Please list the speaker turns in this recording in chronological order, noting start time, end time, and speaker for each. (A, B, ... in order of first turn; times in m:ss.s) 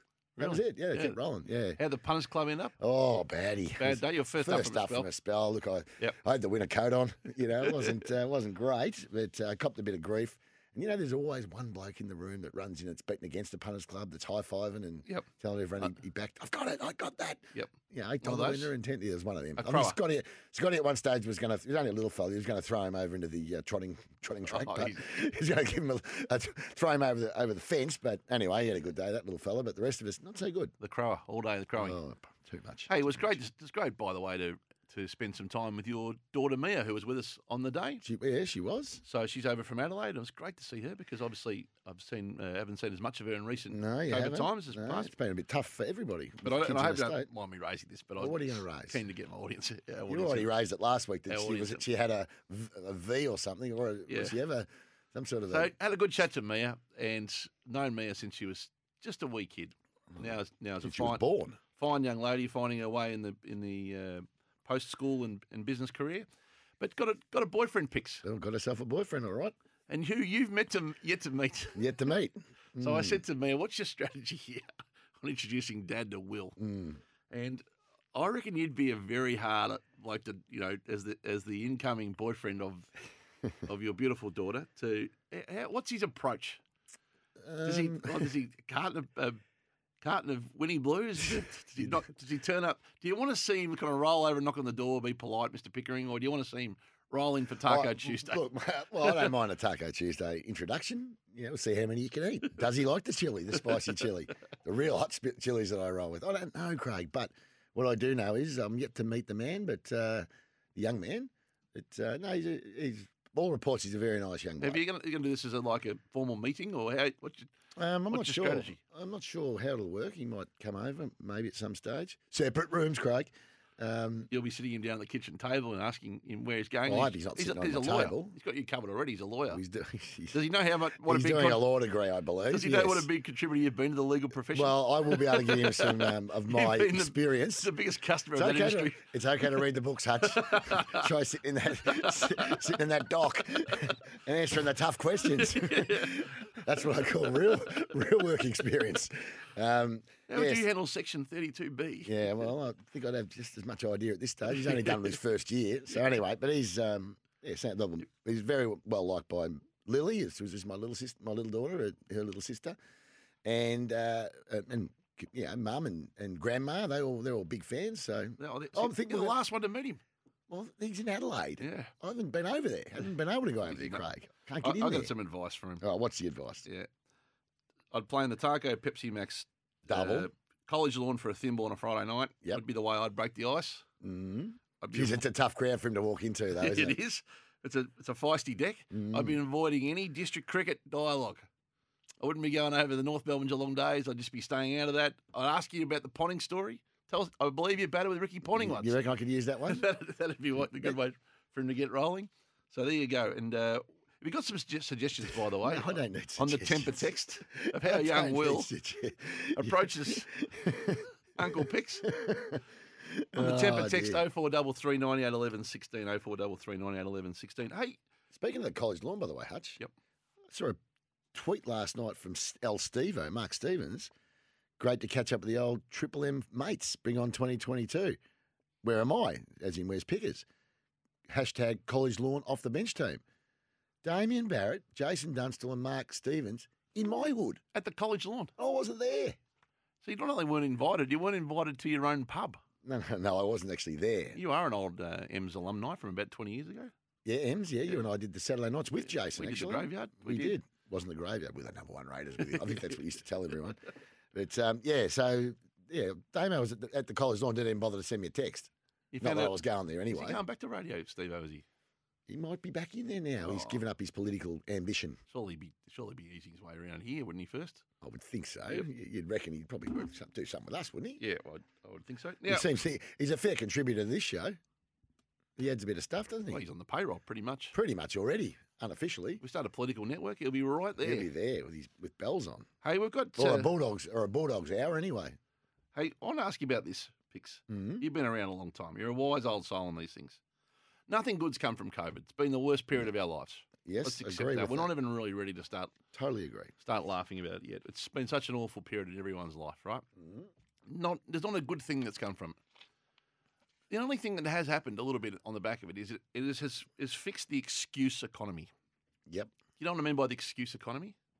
0:00.4-0:01.8 A
0:00.4-0:01.2 B
0:01.8-0:02.7 B
0:02.8-0:30.7 A
0:03.8-0:05.1 B
0:07.6-0:08.0 B
0:17.5-0:18.7 B
0:19.6-0:20.0 B
0:24.5-0:25.0 B
0:30.8-0:32.0 B
0:31.8-0:33.3 A
0:32.9-0:38.0 B
0:38.0-0:39.0 A
0:39.0-0:45.1 B
0:43.7-0:47.3 A
0:46.4-0:50.5 B
0:48.2-0:49.0 A
0:50.1-0:55.7 A
0:51.3-0:51.8 B
0:54.1-0:54.3 B
0:55.5-1:06.3 B
1:00.8-1:01.6 A
1:06.8-1:08.2 B
1:08.2-1:09.5 A
1:09.9-1:11.7 B
1:11.7-1:13.2 A
1:12.8-1:14.7 B
1:15.2-1:16.6 B
1:16.6-1:17.0 A
1:17.3-1:22.9 B
1:23.6-1:26.6 B
1:27.4-1:28.3 A
1:27.6-1:29.4 B
1:30.0-1:38.4 B
1:37.6-1:54.8 A
1:54.6-1:57.5 B
1:57.8-2:04.3 A
1:58.1-1:58.8 B
2:04.3-2:09.6 B
2:06.8-2:08.3 A
2:09.5-2:10.4 A
2:10.3-2:11.6 B
2:11.0-2:13.0 A
2:12.5-2:19.0 B
2:14.5-2:17.7 A
2:18.4-2:30.6 A
2:20.4-2:21.0 B
2:22.0-2:22.5 B
2:25.3-2:26.2 B
2:30.3-2:32.1 B
2:32.0-2:42.8 A
2:34.6-2:35.0 B
2:43.4-2:49.4 A
2:48.4-2:50.0 B
2:50.5-2:55.1 A
2:51.6-2:51.9 B
2:53.6-2:54.0 B
2:54.6-2:55.8 B
2:55.8-2:56.6 A
2:57.9-3:03.8 B
2:59.9-3:00.3 A
3:04.0-3:07.0 A
3:04.8-3:05.2 B
3:06.6-3:11.4 B
3:08.9-3:09.4 A
3:12.2-3:19.0 B
3:18.5-3:19.8 A
3:19.7-3:28.7 B
3:25.6-3:32.6 A
3:29.6-3:30.3 B
3:31.4-3:32.0 B
3:33.1-3:34.2 A
3:33.4-3:38.0 B
3:38.3-3:39.8 A
3:40.5-3:40.8 A
3:41.3-3:44.1 A
3:44.8-3:48.2 A
3:48.8-3:50.4 A
3:51.3-3:53.2 A
3:54.0-3:57.6 A
3:57.7-3:58.5 B
3:58.6-3:59.4 A
4:00.0-4:02.6 B
4:02.8-4:04.4 A
4:04.3-4:06.9 B
4:07.2-4:13.8 A
4:09.3-4:10.5 B
4:14.3-4:20.4 A
4:19.1-4:19.6 B
4:20.1-4:21.6 B
4:22.3-4:25.2 A
4:23.4-4:23.8 B
4:25.3-4:27.8 B
4:28.0-4:31.2 A
4:31.2-4:32.7 B
4:32.5-4:34.6 A
4:35.6-4:36.6 A
4:36.5-4:37.7 B
4:37.7-4:39.4 A
4:39.4-4:41.3 B
4:41.0-4:42.7 A
4:42.8-4:43.7 B
4:43.4-4:45.4 A
4:45.9-4:50.4 B
4:47.7-4:48.0 A
4:51.1-4:56.0 B
4:53.8-4:54.9 A
4:56.1-4:56.7 A
4:56.8-5:00.0 B
5:00.2-5:00.5 A
5:00.9-5:02.6 B
5:03.9-5:08.7 B
5:09.3-5:09.5 A
5:09.8-5:11.1 B